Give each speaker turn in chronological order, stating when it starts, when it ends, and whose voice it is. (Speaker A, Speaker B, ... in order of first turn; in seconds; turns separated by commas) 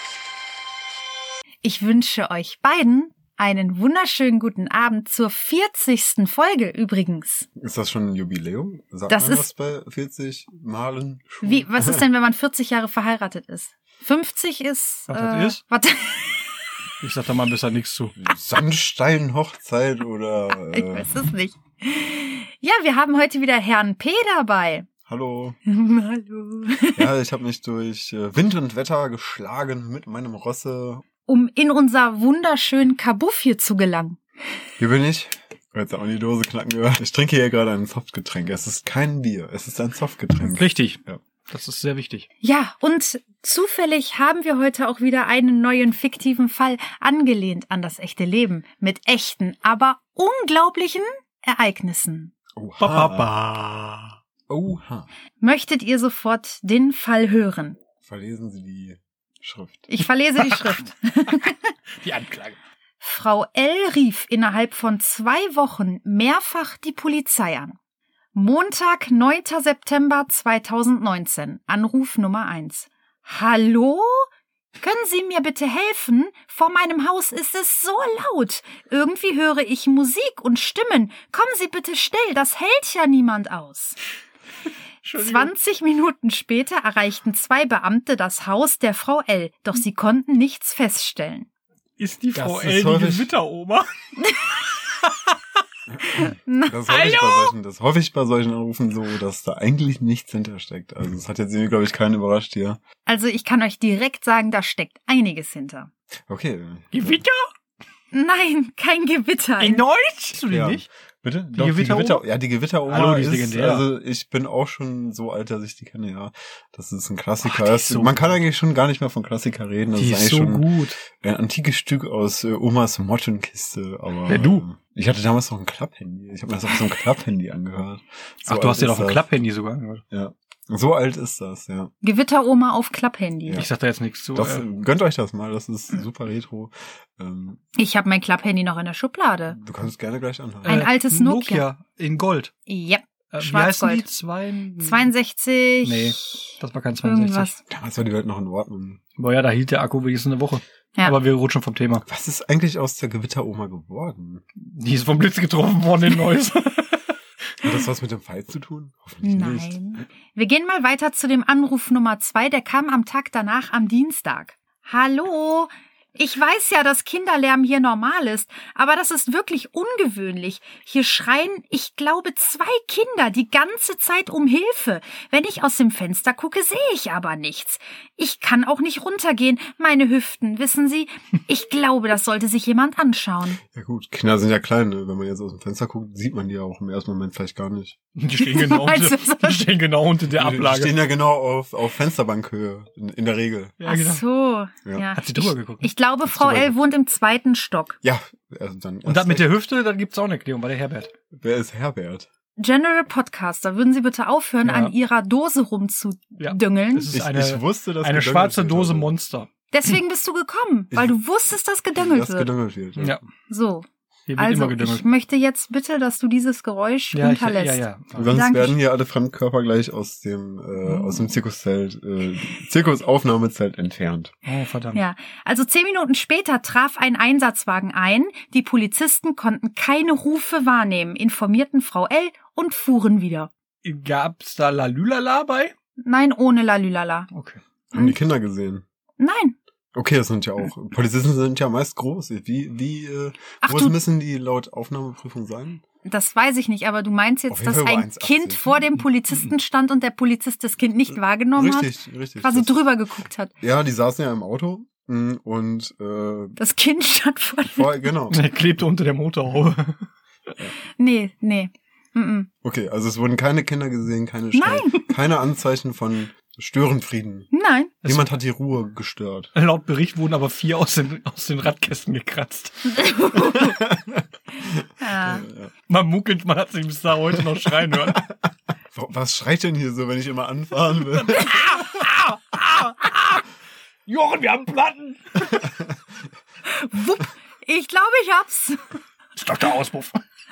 Speaker A: 1.6-7.5, Speaker B: 7.6-12.1, Speaker A: 9.1-9.5, Speaker A: 11.4-16.5, Speaker C: 15.1-15.6, Speaker C: 17.0-18.2, Speaker B: 18.2-21.1, Speaker A: 20.5-24.9, Speaker B: 25.1-25.6, Speaker A: 25.7-27.1, Speaker B: 27.0-31.0, Speaker A: 31.3-34.2, Speaker B: 34.8-41.2, Speaker C: 40.4-42.3, Speaker A: 42.4-52.3, Speaker B: 52.6-53.3, Speaker C: 52.8-54.2, Speaker B: 54.5-55.1, Speaker A: 55.4-57.8, Speaker B: 58.0-59.9, Speaker A: 59.9-61.7, Speaker C: 60.4-60.8, Speaker C: 62.0-62.6, Speaker A: 63.0-67.8, Speaker A: 68.3-74.3, Speaker A: 74.8-84.0, Speaker C: 85.0-85.5, Speaker A: 85.2-91.5, Speaker C: 92.0-93.9, Speaker B: 92.3-93.3, Speaker A: 94.2-94.5, Speaker B: 96.0-102.8, Speaker A: 96.0-96.8, Speaker C: 96.9-97.5, Speaker A: 103.1-105.9, Speaker B: 106.3-107.2, Speaker C: 106.9-107.5, Speaker A: 108.1-109.8, Speaker C: 109.6-110.8, Speaker B: 110.5-129.2, Speaker C: 111.5-112.2, Speaker C: 112.9-113.9, Speaker C: 117.4-118.3, Speaker C: 120.0-121.0, Speaker C: 124.3-124.6, Speaker C: 128.5-130.0, Speaker B: 130.1-131.9, Speaker A: 132.0-133.7, Speaker C: 133.6-134.7, Speaker B: 134.3-137.6, Speaker A: 137.8-139.6, Speaker B: 139.6-140.9, Speaker A: 140.7-141.7, Speaker C: 140.7-142.5, Speaker A: 142.7-144.1, Speaker C: 143.3-145.1, Speaker A: 144.8-147.6, Speaker C: 145.8-147.5, Speaker B: 147.7-149.0, Speaker C: 149.2-152.0, Speaker B: 152.1-154.4, Speaker C: 154.6-157.2, Speaker B: 157.6-159.8, Speaker A: 159.2-183.6, Speaker B: 183.6-188.0, Speaker C: 188.2-190.9, Speaker A: 188.4-189.7, Speaker B: 190.3-193.8, Speaker C: 193.8-194.2, Speaker A: 193.9-198.0, Speaker C: 195.2-195.9, Speaker B: 196.3-196.8, Speaker B: 198.0-199.5, Speaker C: 199.1-201.1, Speaker B: 201.3-202.3, Speaker A: 202.6-207.1, Speaker C: 204.6-204.9, Speaker C: 206.4-209.5, Speaker B: 207.1-209.1, Speaker A: 209.7-212.5, Speaker B: 212.0-213.2, Speaker A: 213.5-218.8, Speaker C: 214.3-215.0, Speaker C: 217.1-218.3, Speaker B: 218.2-224.3, Speaker C: 224.4-225.0, Speaker A: 224.9-233.5, Speaker C: 233.8-235.7, Speaker A: 236.0-237.3, Speaker C: 237.3-237.6, Speaker B: 237.9-238.8, Speaker A: 239.2-239.6, Speaker B: 239.9-245.8, Speaker A: 243.6-244.0, Speaker A: 246.1-253.5, Speaker B: 247.5-248.8, Speaker B: 251.6-252.8, Speaker B: 253.6-256.6, Speaker A: 256.6-258.1, Speaker B: 257.7-258.4, Speaker C: 258.3-260.1, Speaker A: 261.0-262.5, Speaker B: 262.6-267.5, Speaker A: 264.5-265.1, Speaker A: 267.5-267.9, Speaker C: 268.0-268.3, Speaker B: 268.1-269.5, Speaker C: 269.6-273.0, Speaker A: 273.0-273.8, Speaker B: 273.5-275.7, Speaker A: 275.0-275.4, Speaker C: 275.9-278.2, Speaker B: 277.9-282.0, Speaker C: 281.1-283.4, Speaker C: 284.1-285.7, Speaker A: 286.7-288.9, Speaker C: 289.4-290.2